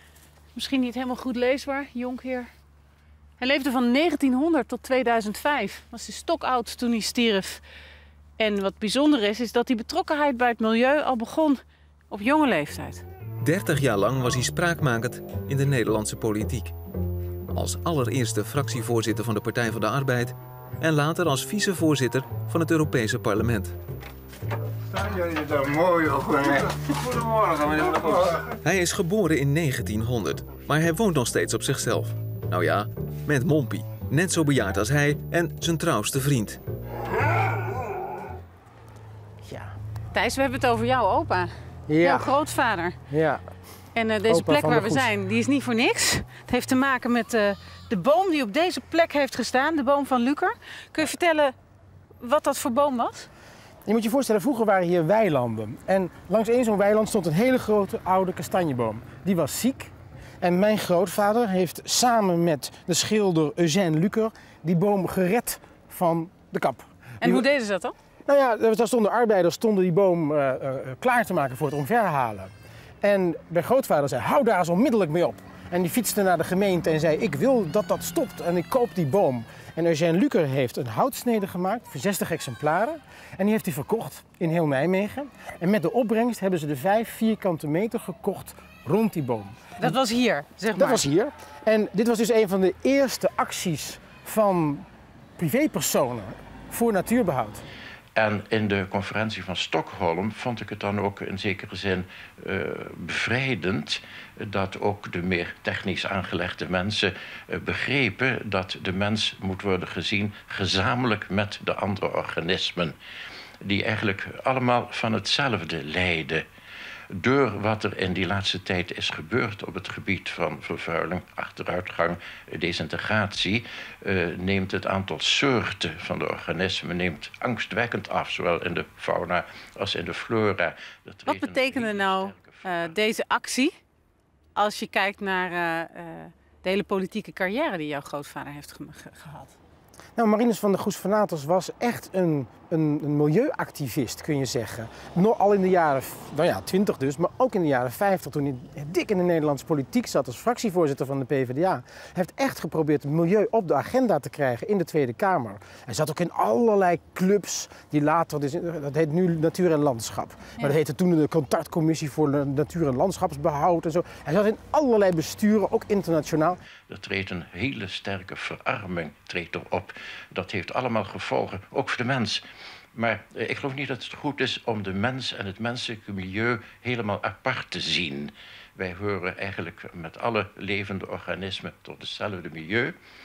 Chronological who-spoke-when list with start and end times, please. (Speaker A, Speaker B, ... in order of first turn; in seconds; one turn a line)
Speaker A: 0.5-2.5
Speaker A: 3.4-7.6
Speaker A: 8.4-11.6
Speaker A: 12.1-13.0
Speaker B: 13.4-16.7
Speaker B: 17.5-23.7
Speaker C: 24.9-28.4
Speaker B: 28.6-36.6
Speaker D: 39.5-39.7
Speaker A: 40.1-41.5
Speaker D: 41.9-42.4
Speaker A: 42.0-43.0
Speaker D: 43.1-43.4
Speaker A: 43.9-51.5
Speaker D: 44.3-45.1
Speaker A: 52.2-53.3
Speaker D: 53.9-67.4
Speaker A: 67.2-67.9
Speaker D: 68.2-72.5
Speaker D: 73.0-89.9
Speaker A: 89.8-91.0
Speaker D: 90.8-94.8
Speaker D: 95.4-97.6
Speaker E: 98.2-113.0
Speaker E: 113.6-116.5
Speaker E: 117.1-133.0
Speaker A: 131.3-133.7
Speaker A: 134.5-139.5
Speaker D: 140.2-166.6
Speaker E: 166.9-172.4
Speaker E: 172.9-182.9